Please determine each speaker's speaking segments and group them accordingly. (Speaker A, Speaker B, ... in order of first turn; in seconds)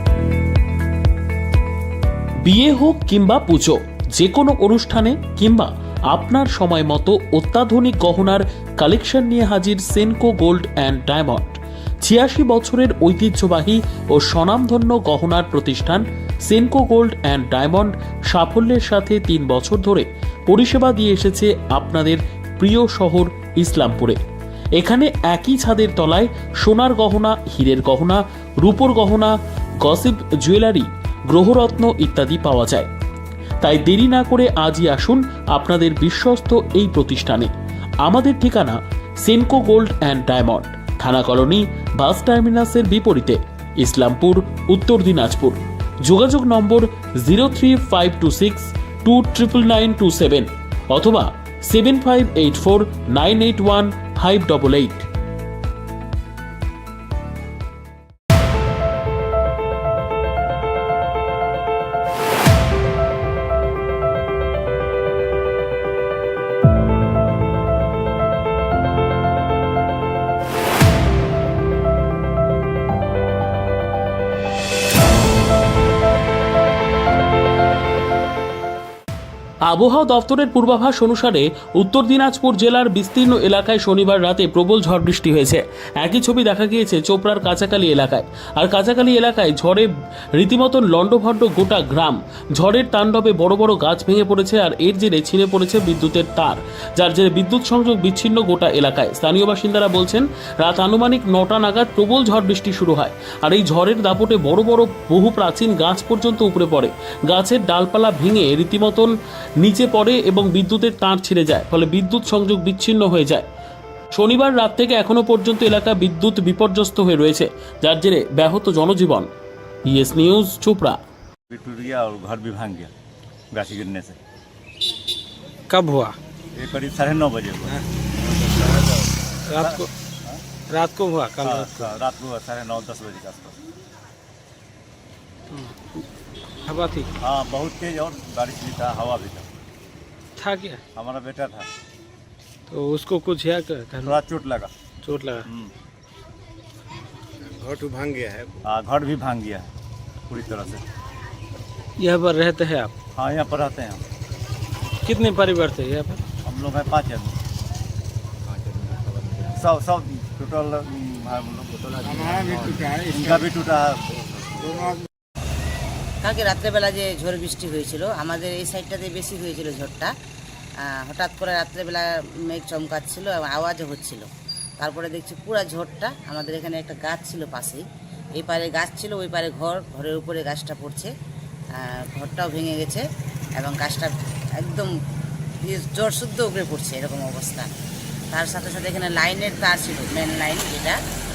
Speaker A: 2.4-24.2, 24.8-32.9, 33.6-37.5, 38.0-55.0, 79.7-113.5, 114.1-119.3, 119.9-121.0
Speaker B: 121.5-122.9, 123.5-124.2, 126.5-127.8, 128.4-128.9, 129.6-130.4, 131.4-133.5, 137.2-139.5, 140.9-141.7, 144.0-144.7, 148.6-149.7, 150.3-150.8, 153.2-154.0, 156.4-157.3, 159.5-161.8, 163.0-164.9
Speaker C: 125.7-126.2, 129.5-129.9, 130.7-131.9, 135.5-135.8, 136.7-137.1, 140.4-140.8, 142.7-144.1, 145.0-145.4, 147.8-148.2, 152.0-152.9, 155.0-156.2
Speaker D: 128.2-128.9, 147.6-148.5, 158.4-159.6, 161.8-163.1
Speaker E: 166.2-170.1, 170.9-174.3, 174.8-177.8, 178.4-181.1, 181.8-183.0, 183.6-184.9, 185.7-187.7, 188.3-191.0